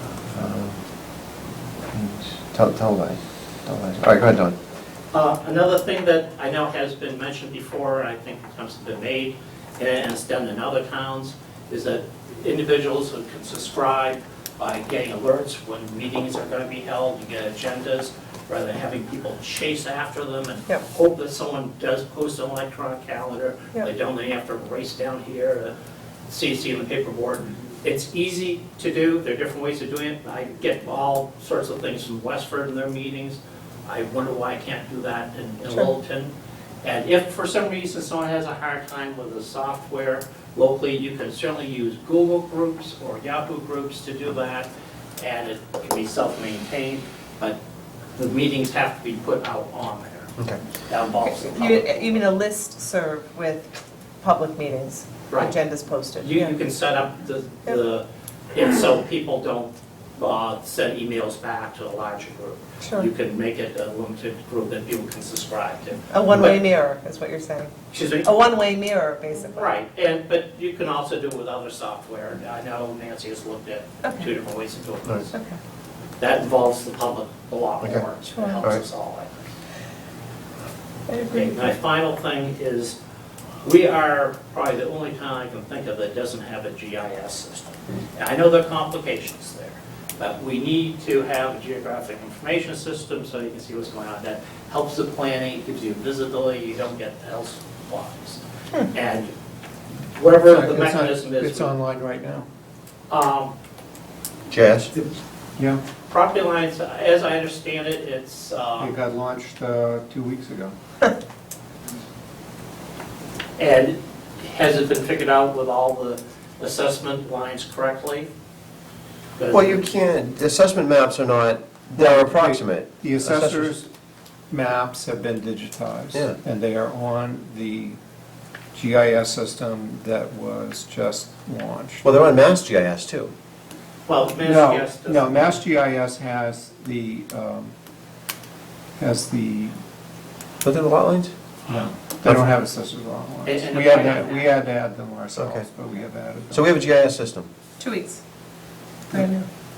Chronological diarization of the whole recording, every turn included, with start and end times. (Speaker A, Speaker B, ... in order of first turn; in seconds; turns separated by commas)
Speaker A: 0.3-0.8, Speaker A: 1.9-4.5, Speaker B: 5.1-25.7, Speaker B: 26.3-47.6, Speaker B: 48.1-50.3, Speaker B: 50.9-52.3, Speaker C: 51.2-56.5, Speaker B: 55.3-55.5, Speaker B: 56.2-66.6, Speaker C: 62.8-63.1, Speaker C: 66.1-69.7, Speaker B: 67.9-68.5, Speaker B: 69.5-75.3, Speaker C: 74.0-74.3, Speaker C: 75.3-75.6, Speaker B: 76.2-79.5, Speaker C: 78.2-78.6, Speaker C: 81.1-81.7, Speaker B: 81.3-83.0, Speaker B: 83.6-99.3, Speaker B: 100.1-101.7, Speaker D: 100.4-102.5, Speaker B: 103.1-103.5, Speaker A: 104.5-104.9, Speaker D: 105.6-105.8, Speaker B: 106.1-108.9, Speaker D: 108.8-110.7, Speaker B: 113.6-118.3, Speaker B: 119.4-119.9, Speaker A: 119.5-123.8, Speaker D: 121.9-123.9, Speaker D: 124.5-128.0, Speaker D: 128.7-132.2, Speaker A: 132.0-133.3, Speaker B: 134.1-135.6, Speaker D: 134.4-137.7, Speaker D: 139.0-139.8, Speaker A: 140.6-141.3, Speaker D: 141.7-146.6, Speaker B: 143.4-144.5, Speaker A: 145.3-145.7, Speaker A: 146.5-147.5, Speaker C: 147.8-148.2, Speaker C: 149.1-149.4